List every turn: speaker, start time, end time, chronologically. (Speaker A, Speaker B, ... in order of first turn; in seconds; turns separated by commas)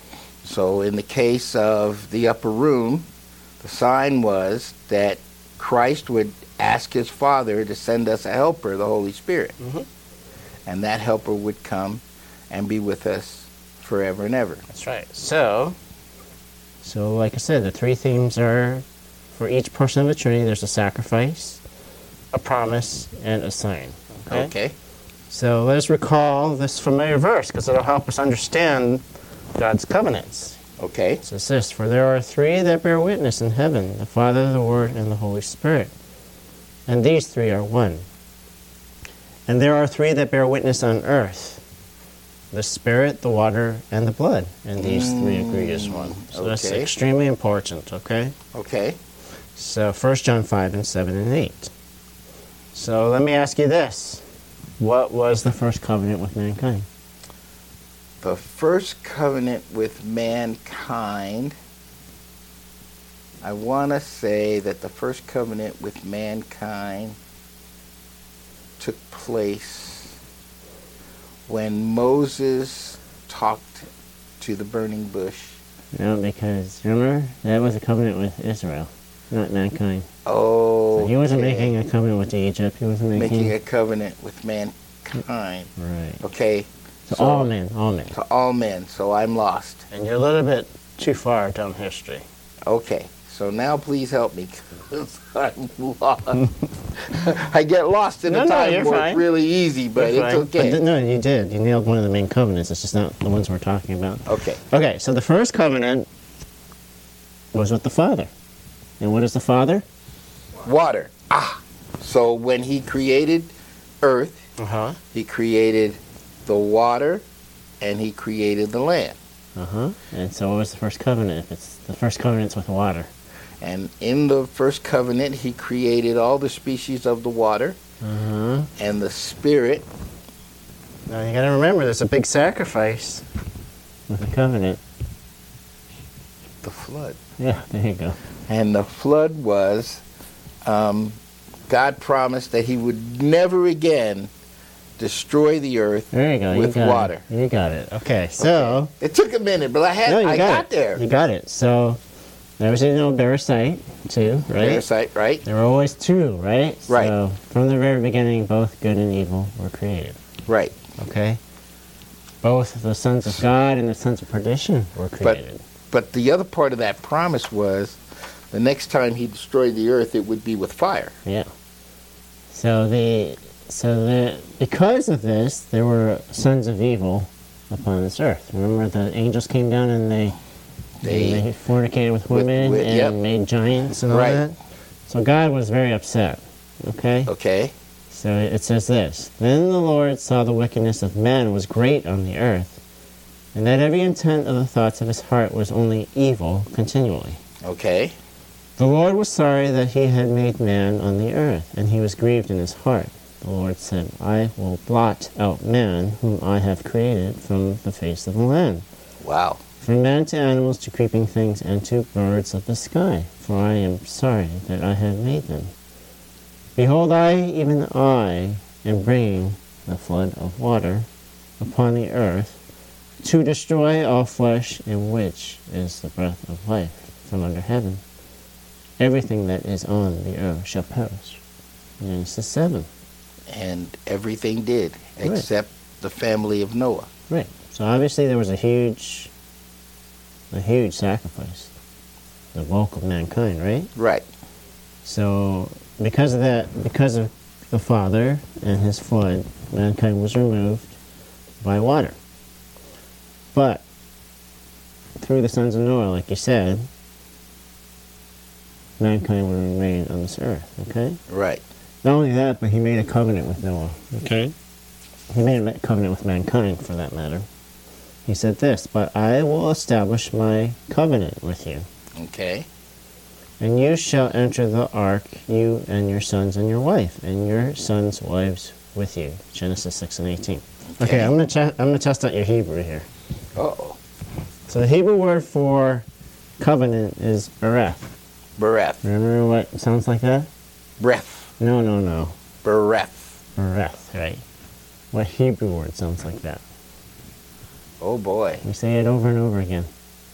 Speaker A: 0.4-3.1, Speaker A: 3.6-9.6, Speaker B: 9.6-9.9, Speaker A: 10.7-14.6, Speaker B: 14.7-15.8, Speaker B: 16.8-18.8, Speaker B: 19.4-21.6, Speaker B: 22.3-24.5, Speaker A: 24.3-24.8, Speaker B: 25.3-29.0, Speaker B: 29.6-30.6, Speaker A: 30.8-31.2, Speaker B: 31.2-35.9, Speaker B: 36.9-38.0, Speaker B: 39.5-41.6, Speaker B: 42.5-48.4, Speaker A: 44.8-46.9, Speaker A: 48.5-49.0, Speaker B: 49.6-51.7, Speaker B: 52.7-54.2, Speaker B: 54.8-56.9, Speaker A: 58.2-61.6, Speaker A: 63.4-67.2, Speaker A: 68.8-70.2, Speaker A: 71.5-73.9, Speaker A: 74.4-75.6, Speaker B: 75.9-80.1, Speaker A: 80.2-81.8, Speaker B: 80.9-83.5, Speaker A: 83.2-85.7, Speaker B: 85.8-86.2, Speaker A: 86.2-87.5, Speaker B: 87.1-88.1, Speaker A: 88.1-89.8, Speaker B: 89.9-92.2, Speaker A: 92.7-100.8, Speaker B: 98.3-99.2, Speaker B: 100.0-106.1, Speaker A: 104.3-104.6, Speaker B: 107.5-108.3, Speaker B: 109.0-109.8, Speaker A: 110.6-114.4, Speaker B: 114.6-115.0, Speaker A: 115.1-117.2, Speaker A: 117.8-119.2, Speaker B: 119.6-123.1, Speaker A: 123.6-127.8, Speaker B: 128.0-128.7, Speaker A: 128.8-129.9, Speaker B: 131.1-133.2, Speaker B: 134.1-134.8, Speaker A: 136.6-137.2, Speaker B: 137.4-138.2, Speaker A: 138.5-140.0, Speaker A: 140.7-144.3, Speaker A: 145.0-147.2, Speaker B: 146.1-148.9, Speaker A: 148.4-151.0, Speaker B: 150.1-152.0, Speaker B: 152.6-154.8, Speaker A: 154.5-155.4, Speaker B: 155.4-160.2, Speaker A: 156.9-157.1, Speaker A: 160.5-160.8, Speaker B: 161.0-161.4, Speaker B: 162.4-165.6, Speaker A: 165.2-168.0, Speaker A: 168.5-171.2, Speaker B: 172.5-180.4, Speaker A: 181.0-181.4, Speaker B: 181.0-184.6, Speaker A: 182.3-183.2, Speaker A: 184.1-184.4, Speaker B: 185.1-187.3, Speaker A: 187.3-187.7, Speaker B: 188.1-192.8, Speaker B: 193.6-197.4, Speaker A: 197.6-198.2, Speaker B: 198.8-208.8, Speaker A: 209.2-209.6, Speaker B: 209.8-215.7, Speaker B: 216.8-221.1, Speaker B: 221.6-222.6, Speaker B: 223.2-228.0, Speaker B: 229.0-231.4, Speaker B: 232.0-232.9, Speaker A: 233.5-237.1, Speaker B: 237.3-239.3, Speaker B: 240.5-241.7, Speaker B: 242.5-243.9, Speaker A: 244.0-244.3, Speaker B: 245.0-250.9, Speaker B: 251.6-252.2, Speaker B: 253.5-253.8, Speaker B: 255.2-256.9, Speaker B: 259.0-261.2, Speaker A: 261.3-261.6, Speaker B: 262.0-264.5, Speaker B: 265.3-267.5, Speaker B: 268.3-271.9, Speaker A: 272.1-272.7, Speaker B: 273.6-283.1, Speaker A: 281.0-281.3, Speaker A: 283.6-284.0, Speaker B: 284.7-286.1, Speaker B: 286.6-288.1, Speaker A: 288.6-289.0, Speaker B: 289.0-290.5, Speaker A: 291.0-291.5, Speaker B: 291.6-292.4, Speaker A: 292.6-293.4, Speaker B: 293.6-294.4, Speaker B: 295.1-296.6, Speaker A: 298.0-298.6, Speaker B: 298.6-299.9